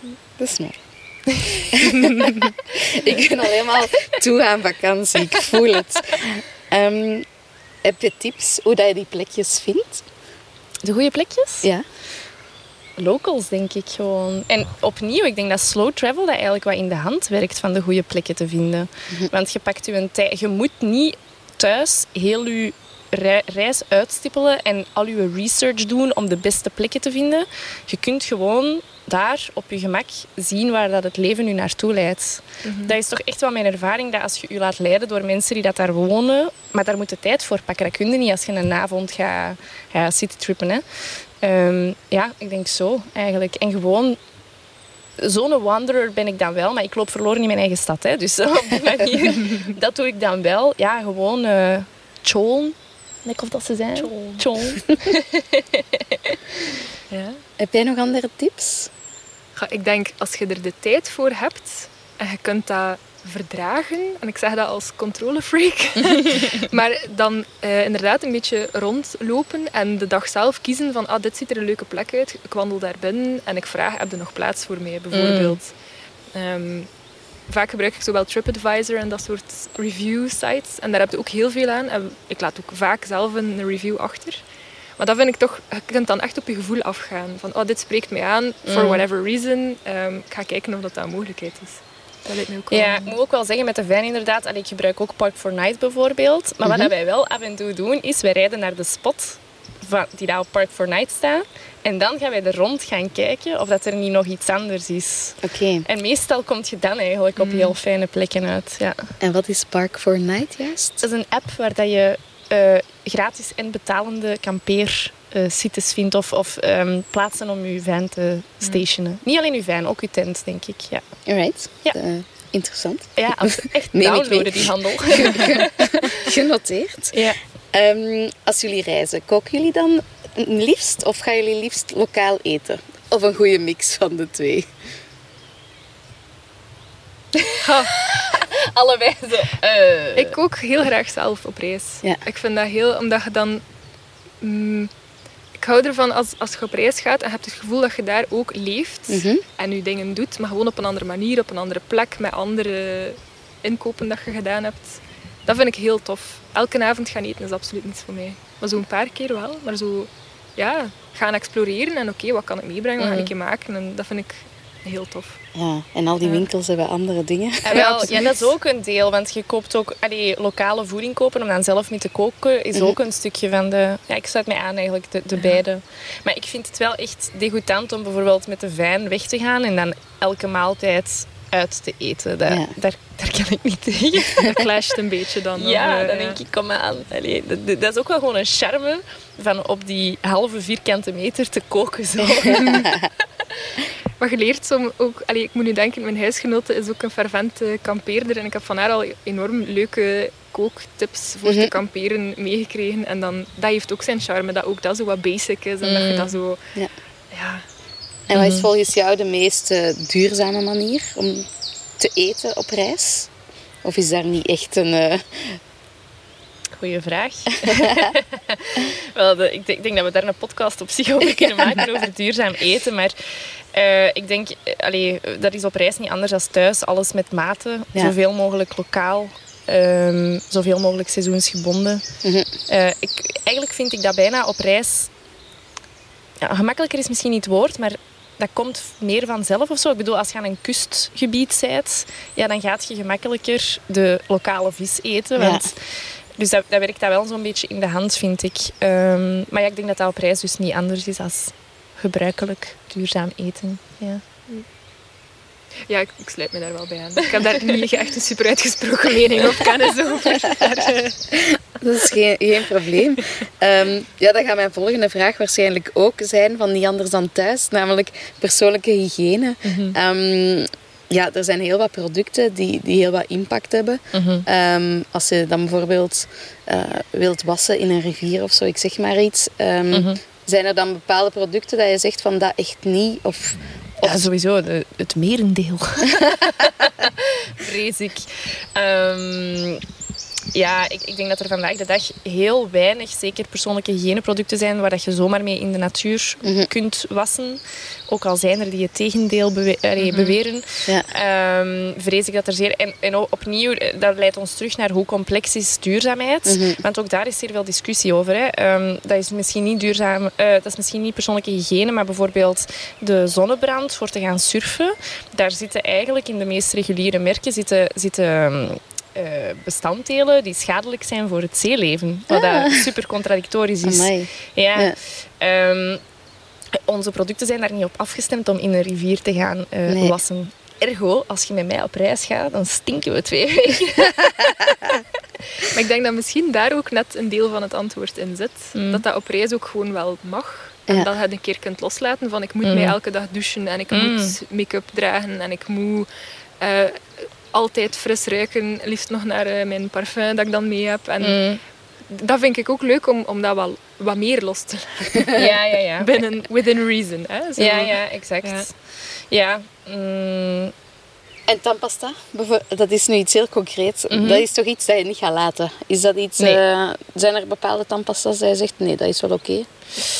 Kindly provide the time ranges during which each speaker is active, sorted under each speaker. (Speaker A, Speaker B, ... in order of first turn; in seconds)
Speaker A: 0.4-0.8, 1.7-7.2, 7.8-10.1, 57.6-58.9, 96.6-96.9, 105.4-105.9, 109.2-111.0, 121.2-134.7, 149.1-149.4, 165.5-167.8, 182.5-182.7, 192.2-193.1, 201.4-201.7, 208.3-211.5, 212.0-213.3, 213.8-215.6, 217.5-218.1, 232.2-232.5, 245.4-245.7, 261.4-284.2, 296.4-296.7, 306.4-306.8, 323.8-325.0, 329.9-330.2, 361.5-369.7
Speaker B: 1.9-2.4, 32.6-33.0, 54.0-54.5, 57.1-57.4, 59.5-75.7, 76.3-76.9, 77.5-84.4, 85.0-93.1, 107.4-107.7, 137.6-138.1, 140.2-143.6, 144.4-144.9, 145.6-165.4, 167.7-168.5, 184.4-186.4, 192.5-192.9, 194.2-206.6, 207.3-207.6, 255.9-261.4, 300.0-300.4, 335.7-346.1, 346.6-351.4, 352.1-358.7
Speaker C: 10.8-11.7, 13.0-40.8, 41.4-44.2, 45.2-56.4, 75.1-75.6, 88.7-89.0, 92.7-109.1, 111.0-121.0, 123.2-126.3, 127.1-127.4, 137.3-140.3, 163.0-163.3, 167.7-184.7, 185.5-193.0, 205.8-206.3, 208.3-208.7, 216.7-223.1, 223.7-232.0, 232.7-235.1, 236.4-245.8, 246.3-254.2, 269.6-269.9, 274.1-274.4, 279.9-280.2, 284.0-289.8, 290.5-326.0, 326.8-334.9, 338.7-339.0, 342.6-343.0, 343.9-344.4, 351.2-351.6, 355.4-356.2, 357.6-360.7, 364.1-364.4